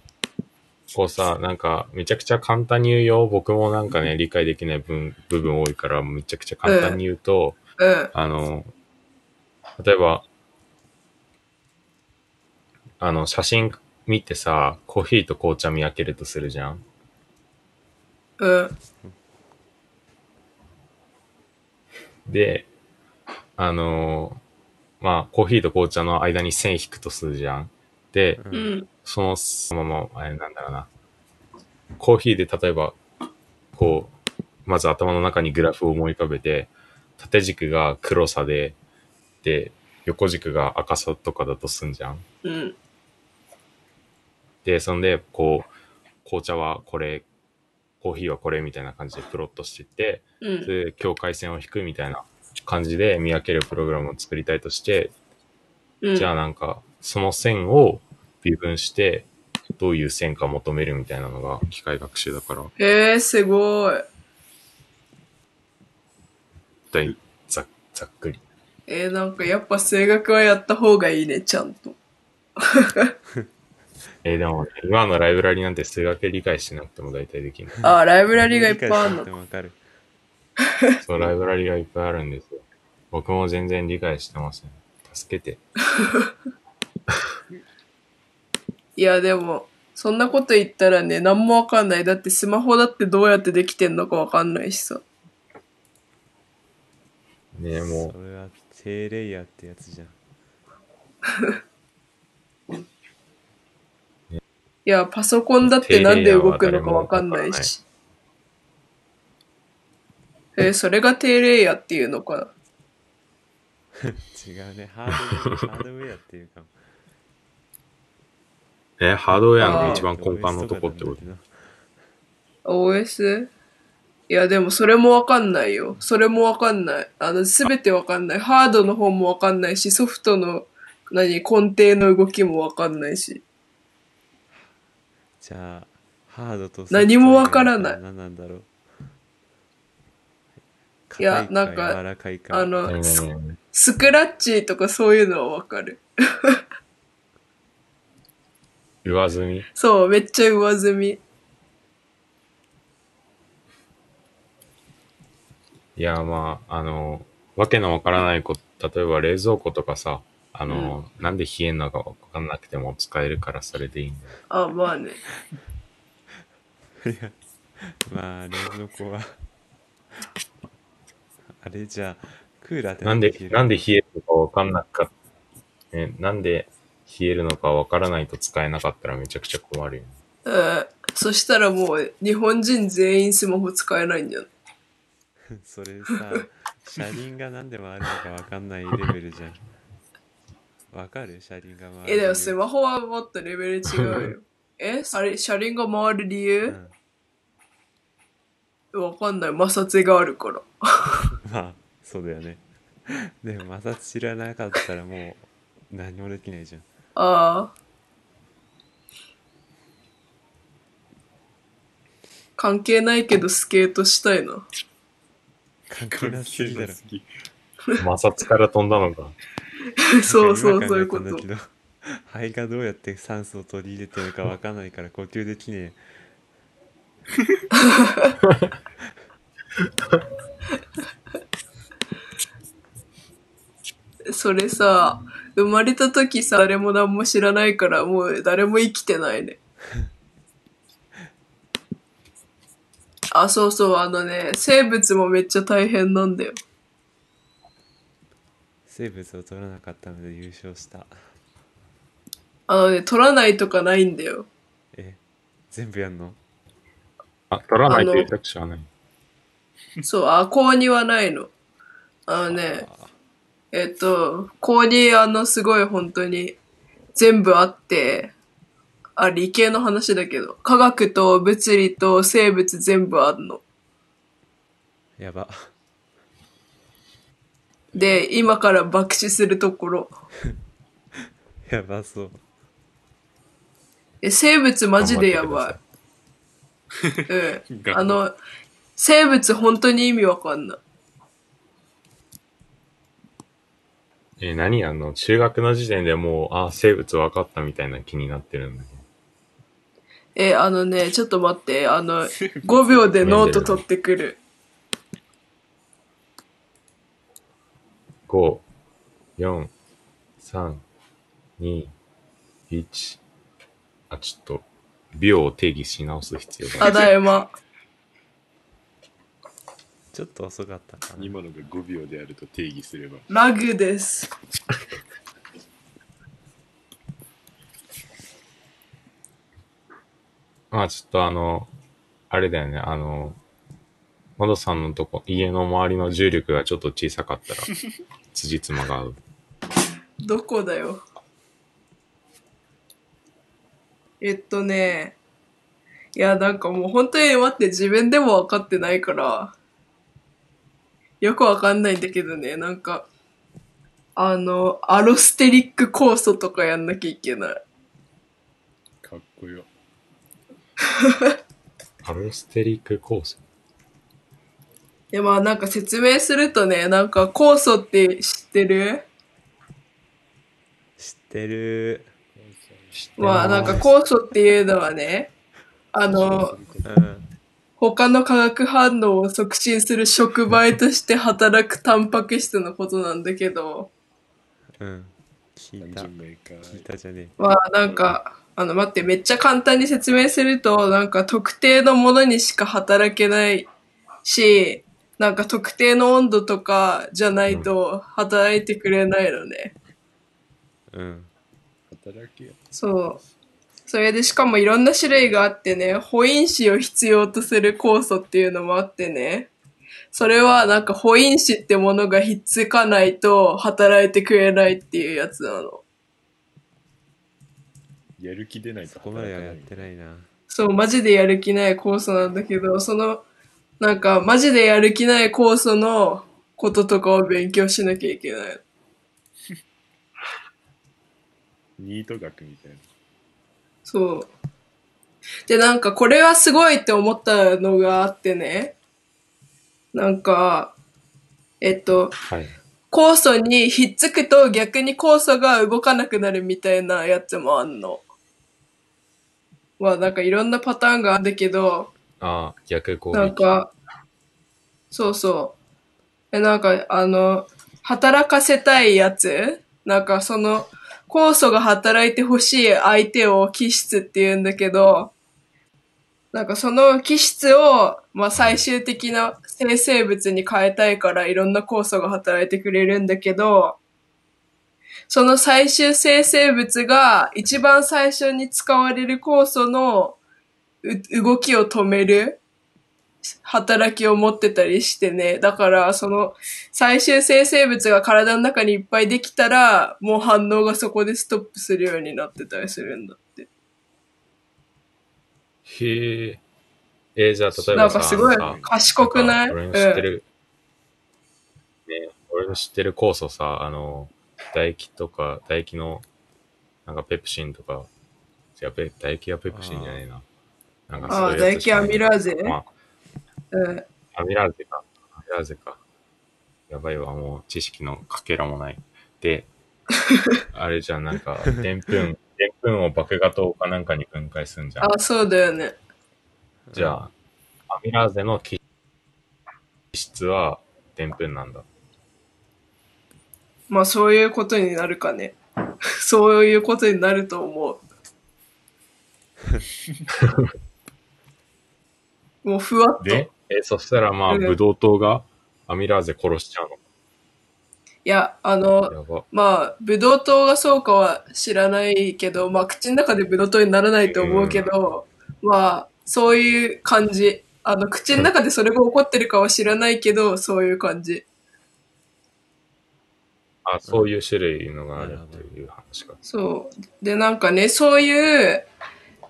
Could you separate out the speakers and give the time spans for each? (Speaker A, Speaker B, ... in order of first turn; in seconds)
Speaker A: 0.9-7.6, 8.1-8.7, 9.8-10.3, 13.0-16.8, 22.2-22.7, 23.6-24.4, 25.0-28.4, 29.0-30.9, 32.0-33.0, 33.7-34.1, 34.6-38.8, 39.4-42.2, 44.6-45.7, 46.2-47.2, 48.0-55.1, 56.1-62.7, 66.9-68.4, 74.2-77.8, 81.0-85.6, 97.5-98.1, 105.6-107.7, 119.0-121.2, 142.9-143.6, 149.0-149.7, 155.9-164.3, 173.0-175.1, 175.9-180.1, 218.0-219.3, 228.4-228.7, 257.5-258.9, 285.0-285.8, 294.4-299.0, 303.2-303.8, 308.3-308.6, 309.4-309.7, 310.4-310.8, 311.6-311.9, 312.7-313.2, 314.1-317.0, 330.7-331.7, 332.3-333.4, 334.4-337.7, 338.3-339.2, 362.0-363.4, 372.9-373.9, 442.3-442.6, 452.2-453.4, 468.4-468.6, 495.6-496.4, 497.1-500.2, 501.9-506.0, 506.9-507.9, 508.6-510.2, 510.9-512.7, 514.1-515.8, 516.7-519.5, 520.5-524.9, 526.7-527.1, 527.7-528.6, 529.9-531.6, 540.2-540.5, 543.0-546.8, 548.9-549.2, 554.1-554.7, 563.6-566.2
Speaker B: 6.6-7.0, 7.8-8.1, 18.4-18.7, 28.5-28.9, 42.4-42.8, 50.4-50.7, 56.0-56.3, 62.8-64.0, 68.9-72.0, 72.6-73.1, 77.8-79.3, 86.0-86.3, 89.0-95.0, 104.8-107.8, 110.5-112.5, 119.6-120.1, 122.7-123.5, 124.3-133.4, 136.9-138.0, 141.2-142.0, 142.5-146.6, 149.8-151.2, 160.7-160.9, 164.5-165.2, 180.4-184.5, 192.1-196.8, 198.9-200.7, 207.2-207.7, 212.6-214.6, 220.0-221.4, 227.7-228.3, 234.3-239.6, 243.3-246.6, 252.7-254.5, 257.9-258.3, 260.0-261.5, 262.3-262.9, 263.7-266.6, 267.1-268.3, 269.2-273.6, 277.9-280.1, 284.2-285.8, 287.3-288.3, 289.0-290.8, 300.3-304.4, 316.8-317.5, 323.3-324.3, 340.2-341.0, 344.2-345.1, 346.1-349.5, 351.2-353.1, 354.1-357.6, 365.1-369.1, 373.2-375.3, 375.9-376.6, 377.8-383.9, 387.4-393.7, 394.2-399.7, 402.7-403.2, 403.9-409.5, 410.1-415.8, 420.5-423.2, 423.8-428.6, 433.9-434.3, 435.5-438.7, 439.9-440.7, 441.6-442.1, 442.9-448.0, 449.8-451.9, 453.1-453.7, 454.9-455.6, 456.3-465.1, 466.3-473.8, 475.1-480.2, 480.8-482.4, 483.4-493.5, 497.7-500.0, 511.1-512.6, 513.5-513.8, 524.8-525.8, 533.7-535.4, 536.0-537.8, 542.4-543.3, 544.3-544.5, 548.0-561.2, 566.2-568.7
Speaker C: 28.4-28.7, 78.3-79.8, 97.8-100.2, 114.0-116.7, 119.6-121.5, 135.4-138.7, 141.1-142.9, 167.0-169.3, 171.5-173.8, 185.6-189.6, 190.9-192.6, 196.7-196.9, 201.4-206.8, 215.9-217.0, 220.2-226.0, 248.9-251.2, 254.9-255.2, 255.7-256.4, 262.5-263.1, 275.2-275.7, 281.6-282.4, 320.1-321.3, 371.0-372.1, 373.4-373.8, 376.8-377.2, 384.8-386.1, 386.6-387.4, 400.9-401.3, 418.9-420.3, 509.5-510.0, 526.7-527.0, 565.0-565.5
Speaker D: 216.1-217.3, 277.9-278.2, 287.0-288.2, 302.3-303.6, 321.2-323.3, 359.0-359.7, 372.3-373.1, 376.1-377.0, 385.8-386.9, 401.9-402.6, 418.2-419.9, 431.8-432.8, 497.5-498.8